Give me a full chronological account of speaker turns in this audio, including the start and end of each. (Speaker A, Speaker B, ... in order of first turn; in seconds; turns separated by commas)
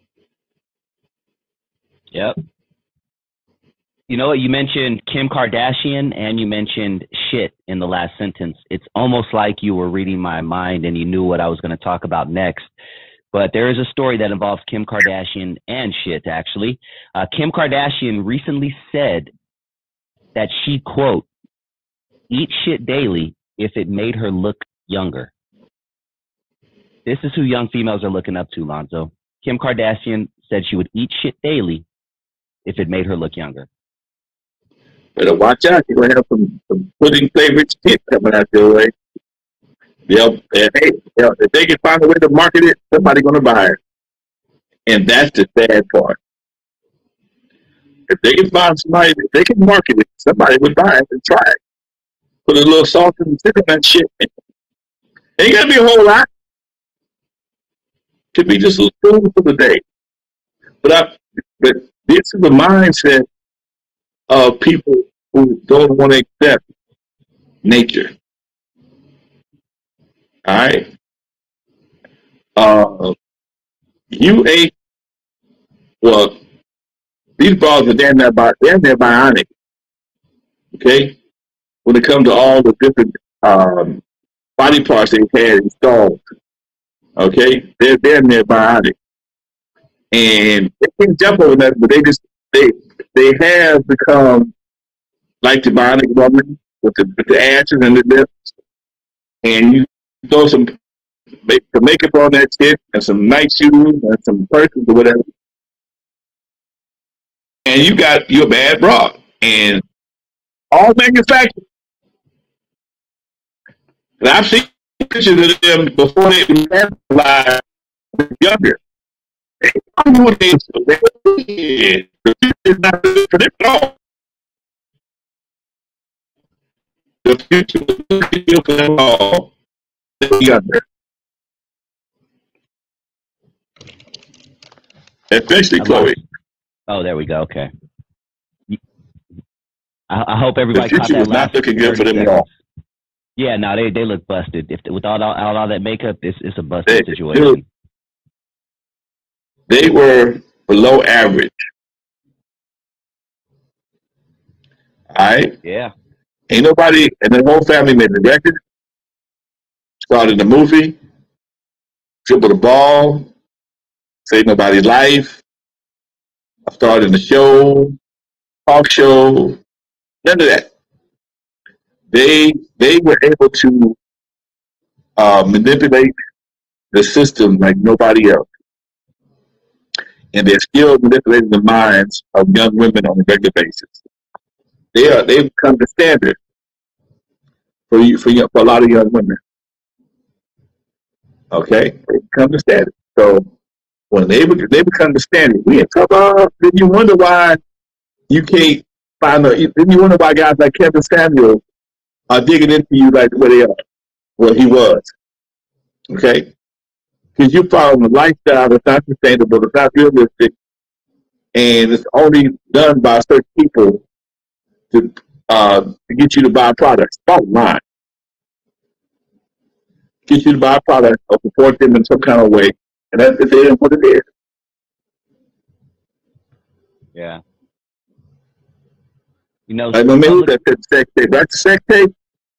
Speaker A: 4.1-12.7, Speaker A: 13.3-19.3, Speaker A: 20.3-21.3, Speaker A: 22.3-25.3, Speaker A: 27.1-31.8, Speaker A: 32.6-33.7, Speaker B: 35.1-38.9, Speaker B: 40.1-43.8, Speaker B: 44.9-46.2, Speaker B: 48.1-51.5, Speaker B: 52.5-54.3, Speaker B: 55.4-56.2, Speaker B: 58.3-59.8, Speaker B: 60.8-63.2, Speaker B: 64.3-66.6, Speaker B: 67.6-68.1, Speaker B: 70.5-70.9, Speaker B: 72.6-73.1, Speaker B: 74.1-74.7, Speaker B: 76.0-76.4, Speaker B: 77.4-79.5, Speaker B: 80.7-81.2, Speaker B: 81.8-84.0, Speaker B: 84.6-86.2, Speaker B: 87.2-88.9, Speaker B: 90.1-94.5, Speaker B: 95.4-98.5, Speaker B: 99.4-100.7, Speaker B: 101.5-105.2, Speaker B: 107.7-109.8, Speaker B: 110.7-111.6, Speaker B: 114.2-117.6, Speaker B: 118.2-118.8, Speaker B: 119.6-123.9, Speaker B: 127.2-129.5, Speaker B: 130.2-130.8, Speaker B: 135.3-136.2, Speaker A: 135.8-136.2, Speaker A: 136.9-137.7, Speaker A: 140.1-142.5, Speaker B: 140.7-142.4, Speaker A: 143.3-147.7, Speaker B: 146.9-147.6, Speaker B: 149.7-151.5, Speaker B: 155.1-155.5, Speaker A: 155.6-155.9, Speaker B: 156.5-158.6, Speaker B: 160.1-161.0, Speaker B: 162.2-163.3, Speaker B: 164.2-165.4, Speaker B: 166.7-167.9, Speaker B: 168.7-169.6, Speaker B: 170.2-170.7, Speaker B: 172.1-174.0, Speaker B: 175.2-176.1, Speaker B: 176.9-178.4, Speaker B: 180.3-184.0, Speaker B: 184.9-186.4, Speaker B: 187.9-189.4, Speaker B: 191.5-193.4, Speaker B: 194.1-197.6, Speaker B: 198.3-201.6, Speaker B: 202.3-203.7, Speaker B: 204.4-205.1, Speaker B: 206.1-206.5, Speaker B: 207.4-210.5, Speaker B: 211.5-214.0, Speaker B: 214.9-217.8, Speaker B: 220.3-224.2, Speaker A: 227.1-227.4, Speaker A: 229.7-230.5, Speaker B: 229.9-232.1